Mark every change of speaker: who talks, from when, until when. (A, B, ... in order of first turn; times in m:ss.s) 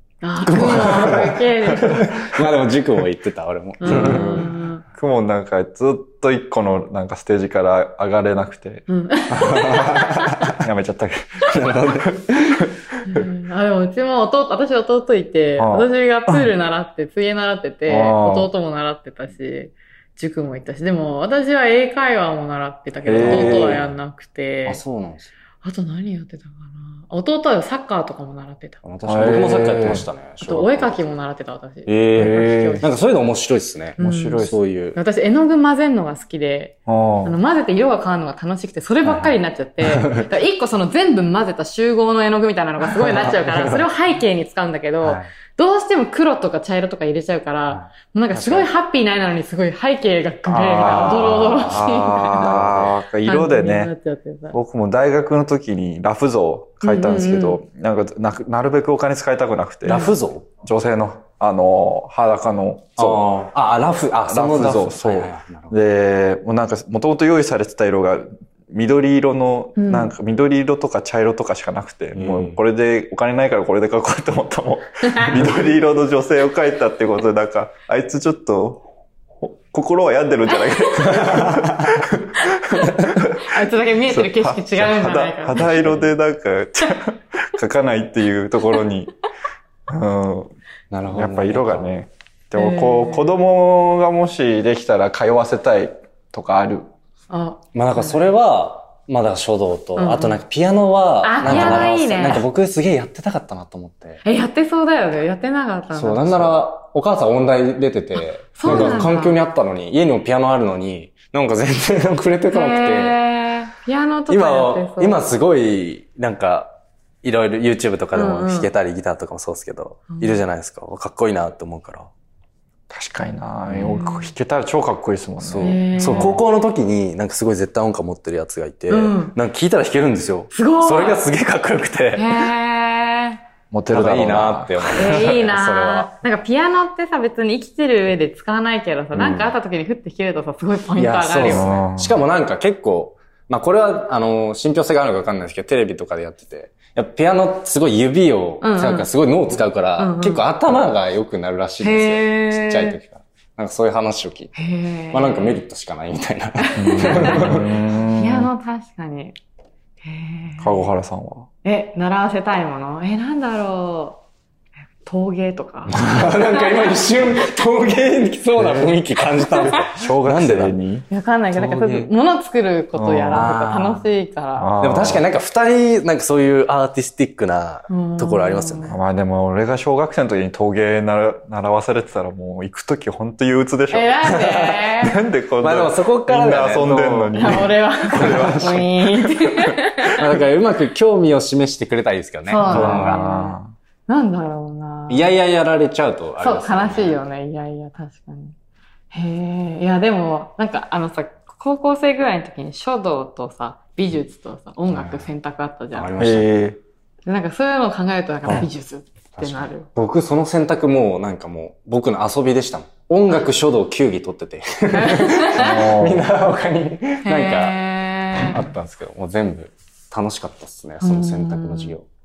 0:00.2-0:02.1 A
0:00.4-0:04.5 B
0:00.5-0:02.4 C
0:03.8-0:04.8 A
0:03.8-0:08.8 C
0:08.9-0:10.4 A
0:09.3-0:10.6 B
0:10.5-0:13.2 C
0:11.5-0:12.7 B
0:13.0-0:24.8 A
0:15.6-0:16.5 C
0:17.9-0:18.5 C
0:23.0-0:23.8 C
0:23.2-0:23.9 B
0:24.6-0:25.3 B
0:25.6-0:28.8 A
0:28.8-0:31.1 B
0:29.0-0:30.0 C
0:30.4-0:33.0 A
0:31.8-0:35.0 B
0:32.2-0:32.8 C
0:34.0-0:34.6 C
0:34.0-0:52.6 A
0:36.9-0:37.4 C
0:39.0-0:40.3 B
0:42.9-0:43.9 B
0:45.0-0:45.3 B
0:47.7-0:48.7 B
0:50.5-0:53.9 C
0:50.8-0:53.0 B
0:53.2-0:54.6 A
0:54.5-1:03.2 C
0:56.8-0:57.6 A
0:59.8-1:00.5 B
1:03.0-1:05.8 B
1:04.3-1:18.9 C
1:09.8-1:10.1 A
1:12.1-1:12.6 B
1:15.0-1:15.4 A
1:19.4-1:23.5 C
1:21.0-1:22.0 B
1:23.4-1:26.0 A
1:24.1-1:29.1 C
1:29.9-1:30.5 C
1:30.9-1:31.9 B
1:31.1-1:36.9 C
1:32.5-1:33.3 A
1:37.3-1:38.2 A
1:37.7-1:44.2 B
1:40.0-1:40.4 A
1:41.2-1:42.5 A
1:41.4-1:41.9 C
1:44.2-1:46.6 A
1:45.9-1:53.2 B
1:48.5-1:49.4 A
1:48.6-1:49.0 C
1:52.5-1:55.2 A
1:54.3-2:02.1 B
1:58.1-1:58.7 A
2:00.1-2:00.4 A
2:02.9-2:06.4 C
2:03.7-2:04.0 B
2:03.8-2:04.3 A
2:05.4-2:12.5 B
2:05.6-2:06.4 A
2:08.9-2:09.4 A
2:10.5-2:11.2 A
2:12.1-2:13.4 A
2:13.7-2:15.2 C
2:13.9-2:16.1 B
2:14.9-2:21.8 A
2:19.2-2:19.5 C
2:21.0-2:34.6 B
2:21.4-2:22.2 C
2:28.6-2:29.1 A
2:30.0-2:30.4 A
2:31.8-2:33.0 A
2:34.6-2:35.6 A
2:35.1-2:37.7 B
2:36.6-2:39.4 A
2:36.8-2:38.5 C
2:40.0-2:40.9 A
2:40.6-2:41.5 C
2:41.6-2:44.2 A
2:45.0-2:47.5 A
2:45.9-2:50.8 B
2:48.6-2:49.0 C
2:49.6-2:51.0 C
2:51.1-2:54.7 A
2:51.5-2:52.1 B
2:53.0-2:53.5 C
2:53.3-2:54.0 B
2:54.6-2:55.2 C
2:54.8-2:58.9 B
2:57.9-2:59.0 A
2:58.9-3:04.2 C
3:03.9-3:05.2 A
3:04.2-3:04.9 B
3:05.0-3:09.7 C
3:05.6-3:08.8 B
3:07.4-3:10.2 A
3:10.1-3:13.2 B
3:12.4-3:15.3 A
3:12.6-3:13.7 C
3:15.1-3:17.2 B
3:16.4-3:18.5 A
3:19.1-3:26.1 A
3:24.9-3:25.3 B
3:25.9-3:26.6 B
3:26.2-3:26.8 C
3:27.3-3:29.9 A
3:29.4-3:37.8 B
3:34.9-3:35.8 A
3:35.5-3:36.3 C
3:37.2-3:38.6 A
3:38.3-3:42.0 B
3:41.0-3:42.0 A